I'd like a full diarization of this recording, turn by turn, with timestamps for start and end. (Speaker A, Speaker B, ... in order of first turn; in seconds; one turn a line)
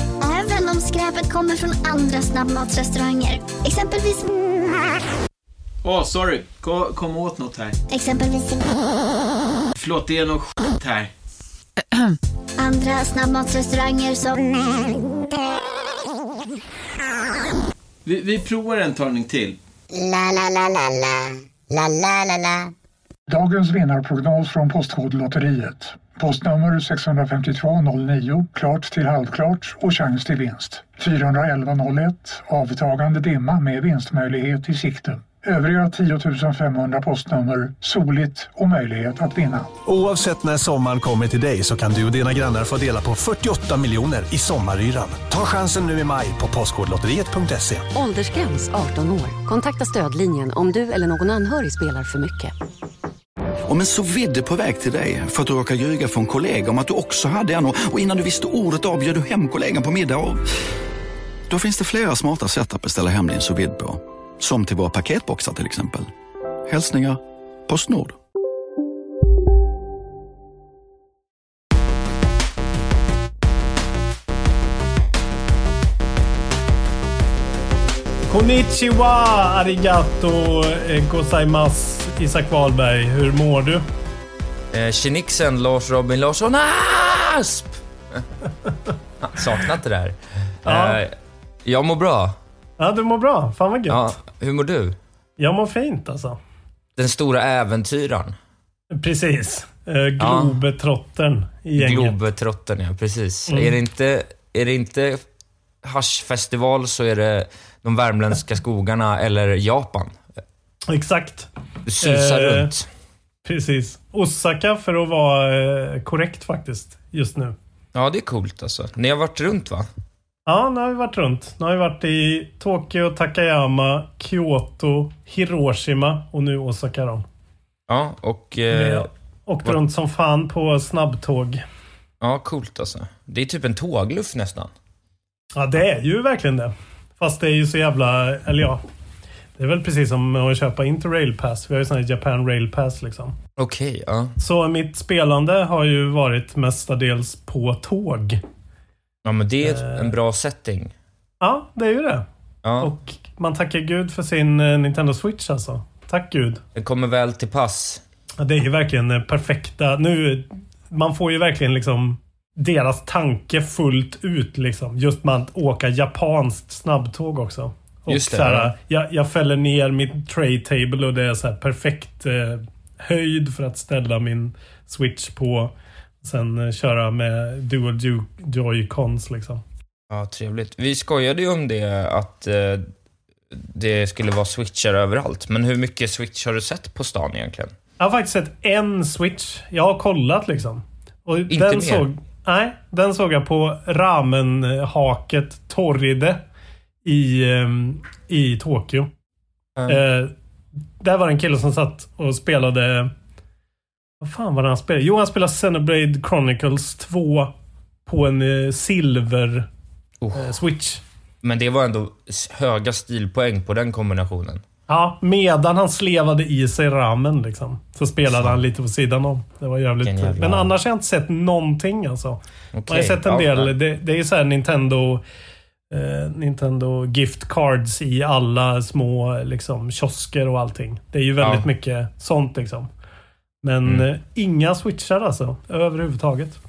Speaker A: 0.2-4.3
Speaker B: 5.8-7.8
Speaker A: 7.9-8.8
Speaker B: 9.7-11.1
Speaker A: 12.6-15.0
Speaker B: 18.0-19.6
Speaker C: 19.9-22.7
Speaker D: 23.3-39.7
Speaker E: 39.9-47.9
Speaker F: 47.9-52.5
Speaker G: 53.6-60.4
Speaker G: 61.5-66.1
Speaker G: 66.7-68.2
Speaker H: 78.3-83.8
Speaker I: 84.7-88.2
Speaker I: 89.2-91.1
Speaker H: 90.6-91.0
Speaker I: 91.6-92.4
Speaker H: 92.8-94.1
Speaker I: 93.9-95.0
Speaker H: 95.4-96.4
Speaker I: 97.0-98.3
Speaker H: 98.9-102.2
Speaker I: 100.2-100.6
Speaker I: 101.8-105.2
Speaker H: 103.5-103.7
Speaker I: 105.8-110.2
Speaker H: 110.9-112.7
Speaker I: 111.8-112.9
Speaker H: 113.5-117.5
Speaker I: 117.9-119.9
Speaker H: 120.5-127.2
Speaker I: 127.9-129.1
Speaker H: 128.7-131.6
Speaker I: 132.2-134.7
Speaker H: 135.6-138.8
Speaker H: 139.6-143.3
Speaker I: 143.6-144.3
Speaker H: 144.4-148.4
Speaker I: 149.2-150.9
Speaker H: 149.6-150.1
Speaker H: 151.4-152.2
Speaker I: 152.6-152.9
Speaker H: 152.8-156.6
Speaker I: 156.7-158.0
Speaker H: 158.4-179.6
Speaker I: 168.1-168.7
Speaker I: 180.1-182.9
Speaker I: 183.5-187.7
Speaker H: 188.0-196.4
Speaker I: 191.5-192.1
Speaker H: 197.0-199.1
Speaker I: 199.8-200.0
Speaker H: 199.9-200.3
Speaker H: 201.0-203.1
Speaker H: 204.2-207.5
Speaker H: 208.1-209.7
Speaker I: 210.2-210.5
Speaker H: 210.3-211.0
Speaker I: 211.4-214.6
Speaker H: 214.9-225.2
Speaker I: 218.3-218.6
Speaker I: 220.0-220.7
Speaker I: 222.7-223.7
Speaker H: 225.9-232.9
Speaker I: 231.4-231.7
Speaker H: 233.6-236.6